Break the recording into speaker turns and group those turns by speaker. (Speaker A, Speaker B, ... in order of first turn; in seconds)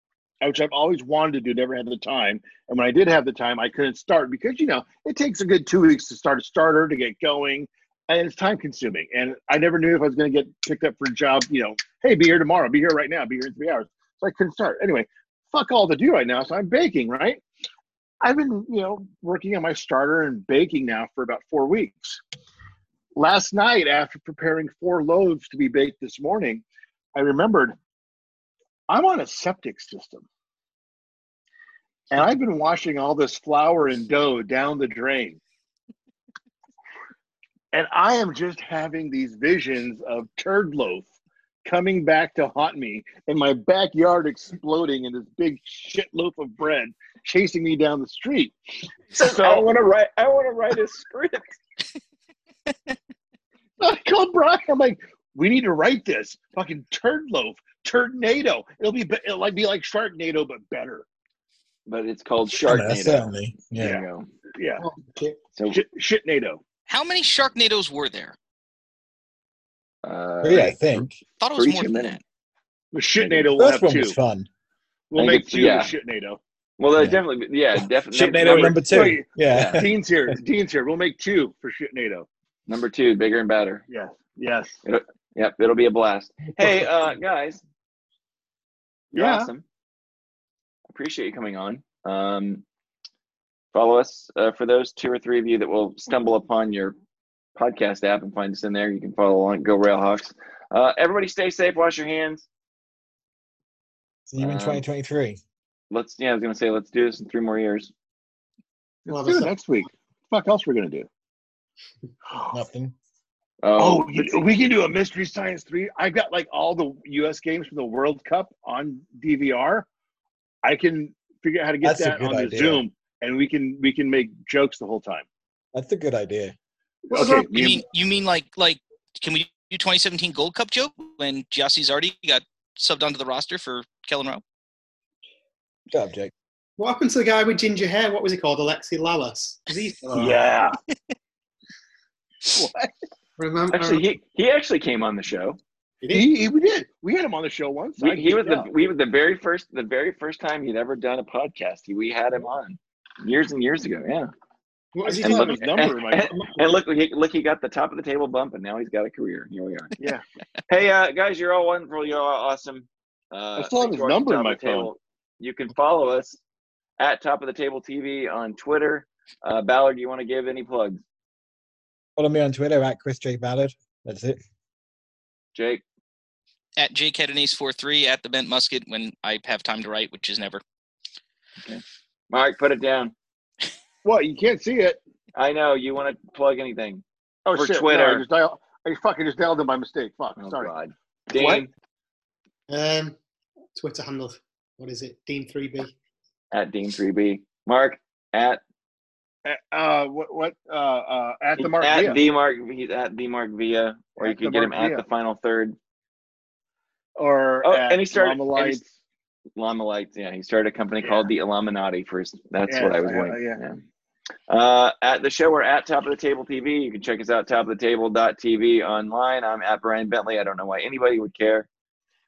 Speaker A: 0.4-17.4, 18.2-22.2, 23.1-26.6, 27.1-27.8, 28.9-30.3, 32.1-35.4, 37.7-41.1, 41.6-48.5, 49.2-49.7, 53.8-61.1, 63.8-64.0, 64.5-64.8, 65.7-66.6, 72.9-74.2, 75.1-76.4, 78.4-82.3, 83.9-84.8, 89.1-89.5, 109.1-111.1, 112.3-112.6, 113.8-119.9, 120.6-125.3, 127.1-127.8, 140.1-140.8, 142.5-142.9, 146.1-148.7, 155.1-156.3, 163.6-164.9, 184.0-185.0, 187.4-190.7, 191.3-191.7, 199.4-202.2, 204.2-205.0, 207.2-208.9, 211.0-211.3, 212.7-213.6
Speaker B: 49.1-51.6, 61.9-64.3, 65.5-65.8, 70.0-71.1, 71.6-72.2, 75.2-75.9, 76.8-79.8, 82.7-83.8, 84.8-87.6, 89.1-89.7, 90.9-92.6, 93.7-97.0, 97.6-102.5, 104.4-104.8, 105.9-107.9, 113.6-114.5, 143.7-145.6, 148.0-154.3, 155.2-160.0, 160.7-166.4, 167.0-171.0, 175.5-175.8, 181.6-183.1, 185.3-188.2, 190.4-191.7, 196.5-198.6, 201.6-205.8, 207.6-208.8, 209.6-213.8, 214.5-221.7
Speaker C: 62.6-64.0, 70.4-71.2, 73.5-74.5, 77.0-77.2, 77.8-79.9, 104.3-105.4, 112.5-113.0, 121.8-122.8, 125.7-126.5, 135.9-136.3, 172.2-174.4
Speaker D: 64.8-65.4, 109.1-109.5, 136.8-140.4, 143.4-144.1, 146.0-146.3, 154.9-156.8, 192.7-193.2, 193.8-195.9
Speaker E: 66.9-68.4, 71.4-72.2, 127.1-134.4, 176.8-180.6